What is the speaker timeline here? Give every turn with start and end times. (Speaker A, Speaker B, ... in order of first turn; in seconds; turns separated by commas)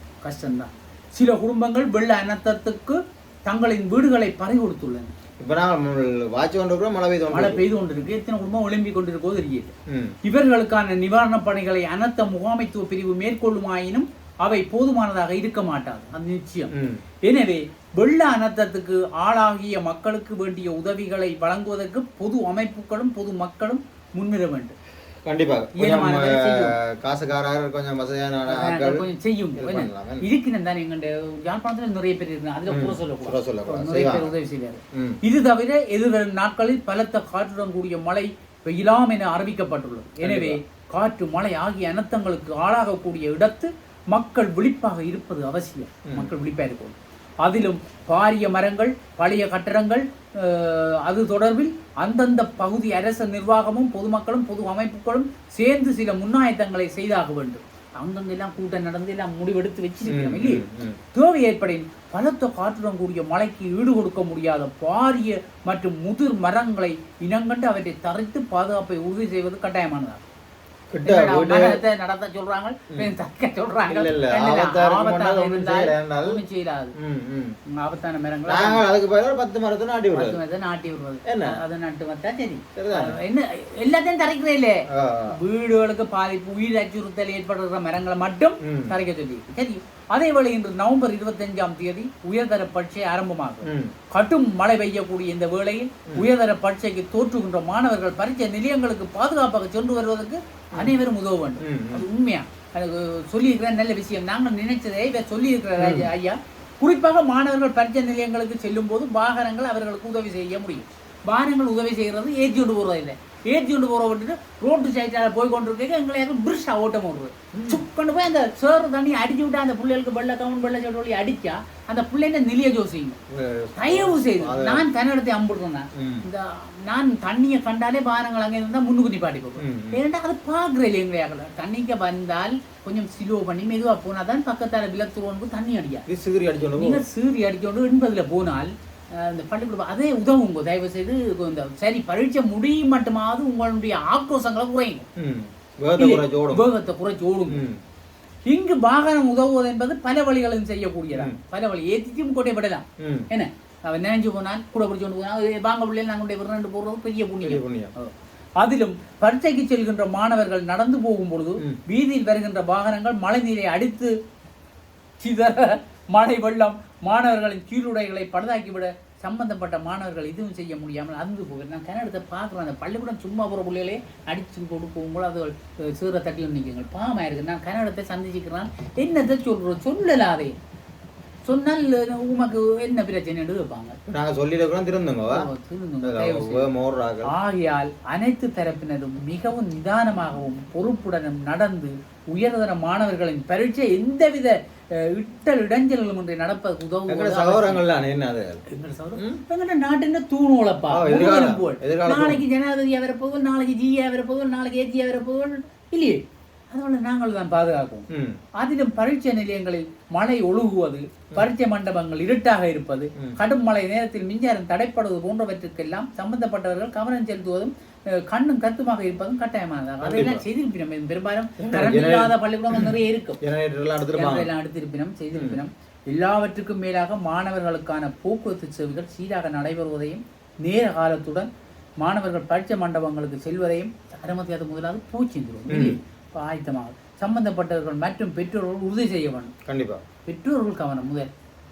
Speaker A: 0.2-5.1, Speaker B: 5.4-7.6, Speaker A: 7.3-16.7, Speaker B: 9.9-10.2, Speaker B: 16.7-17.0, Speaker A: 17.2-24.8, Speaker B: 25.2-29.0, Speaker A: 25.8-26.8, Speaker A: 28.5-70.2, Speaker B: 29.6-30.3, Speaker B: 32.7-34.3, Speaker B: 34.9-35.2, Speaker B: 40.2-40.6, Speaker B: 46.1-46.3, Speaker B: 60.0-61.0, Speaker B: 70.9-71.8, Speaker A: 71.0-76.9, Speaker B: 73.9-76.4, Speaker B: 77.0-77.6, Speaker A: 77.7-78.8, Speaker B: 78.5-80.4, Speaker A: 80.1-123.2, Speaker B: 81.2-81.6, Speaker B: 82.8-83.2, Speaker B: 84.9-85.4, Speaker B: 88.6-88.9, Speaker B: 93.6-93.9, Speaker B: 101.6-102.1, Speaker B: 105.8-106.1, Speaker B: 117.5-117.8, Speaker B: 123.3-124.8, Speaker A: 123.8-136.0, Speaker B: 126.0-126.2, Speaker B: 129.6-130.0, Speaker B: 136.1-137.0, Speaker A: 136.8-145.1, Speaker B: 145.2-146.7, Speaker A: 145.9-147.6, Speaker B: 147.5-147.8, Speaker A: 148.5-164.1, Speaker B: 153.0-153.2, Speaker B: 157.4-157.9, Speaker A: 165.2-180.5, Speaker A: 181.4-184.0, Speaker B: 184.1-185.5, Speaker A: 185.3-186.7, Speaker B: 186.0-187.3, Speaker A: 187.2-197.8, Speaker B: 197.1-198.6, Speaker A: 198.7-208.1, Speaker B: 200.9-202.4, Speaker B: 208.1-208.4, Speaker A: 208.6-223.4, Speaker B: 220.0-220.4, Speaker B: 221.6-224.5, Speaker A: 224.1-231.5, Speaker B: 225.3-225.6, Speaker A: 232.0-239.5, Speaker B: 235.7-235.9, Speaker B: 239.7-240.0, Speaker A: 240.2-241.3